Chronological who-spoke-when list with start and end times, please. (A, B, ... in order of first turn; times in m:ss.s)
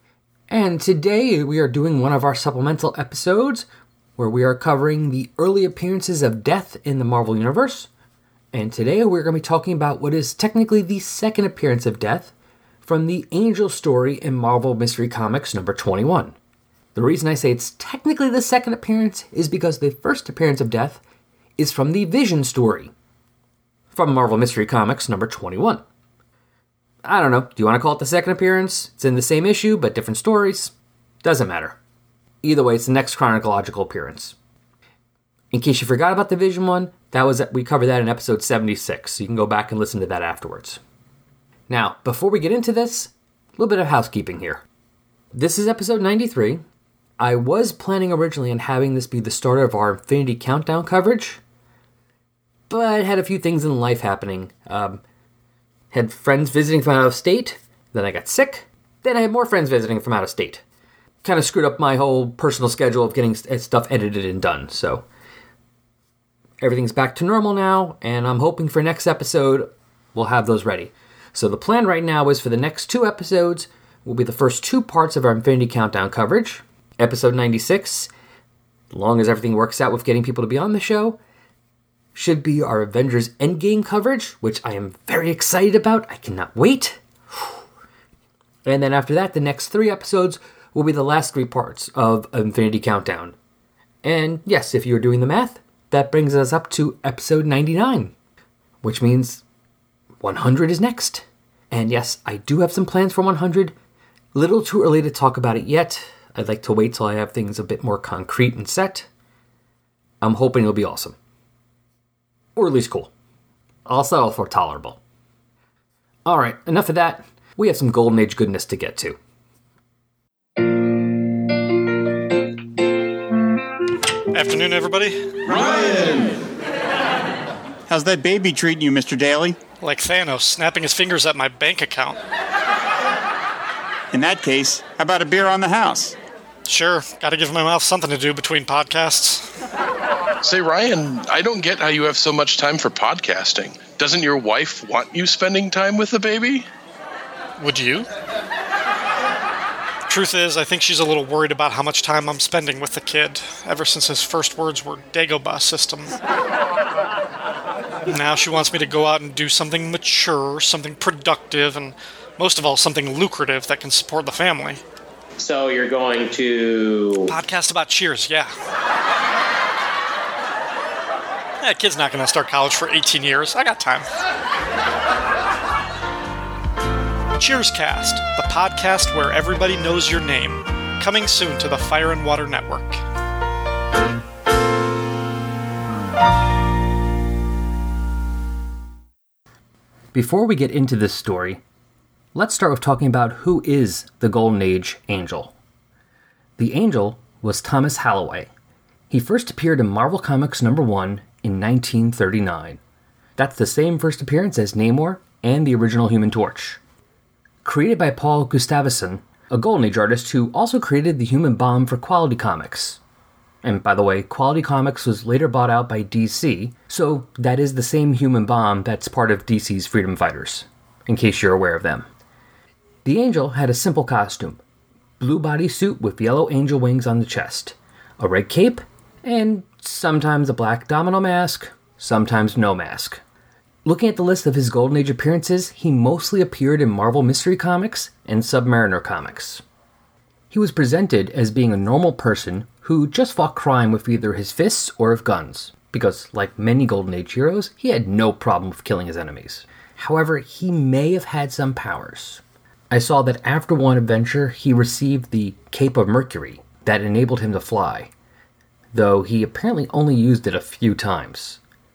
0:00.5-0:03.7 A
0:04.2-0:07.9 A
0:08.5-0:16.4 A
0:16.9-0:21.0 A
0:21.6-0:22.9 A
0:23.9-0:25.8 A
0:27.0-0:31.8 A
0:32.4-0:34.4 A
0:35.5-0:40.8 A
0:41.7-0:44.6 A
0:45.3-0:46.6 A
0:47.2-0:51.4 A
0:52.7-0:55.0 A
0:55.9-1:00.6 A
1:01.2-1:05.1 A
1:06.6-1:18.1 A
1:18.9-1:21.2 A
1:22.1-1:27.6 A
1:28.6-1:33.4 A
1:34.0-1:38.1 A
1:38.8-1:39.4 A
1:40.2-1:43.7 A
1:44.3-1:49.1 A
1:50.2-1:51.2 A
1:52.6-1:53.1 A
1:53.9-1:55.0 A
1:56.2-1:59.2 A
2:04.3-2:06.3 B
2:07.9-2:09.6 C
2:09.8-2:12.2 B
2:14.1-2:16.2 C
2:16.7-2:19.5 B
2:20.4-2:26.7 D
2:27.6-2:28.1 B
2:30.1-2:36.2 B
2:38.1-2:44.8 B
2:45.4-2:47.3 E
2:47.3-2:48.5 B
2:51.6-2:54.1 B
2:57.4-3:03.0 B
3:10.1-3:11.6 A
3:12.3-3:15.5 A
3:16.6-3:18.5 A
3:19.1-3:22.8 A
3:23.4-3:26.8 A
3:27.6-3:33.0 A
3:33.6-3:42.1 A
3:43.0-3:44.6 A
3:45.2-3:53.2 A
3:53.8-3:59.6 A
4:00.5-4:18.1 A
4:18.9-4:21.6 A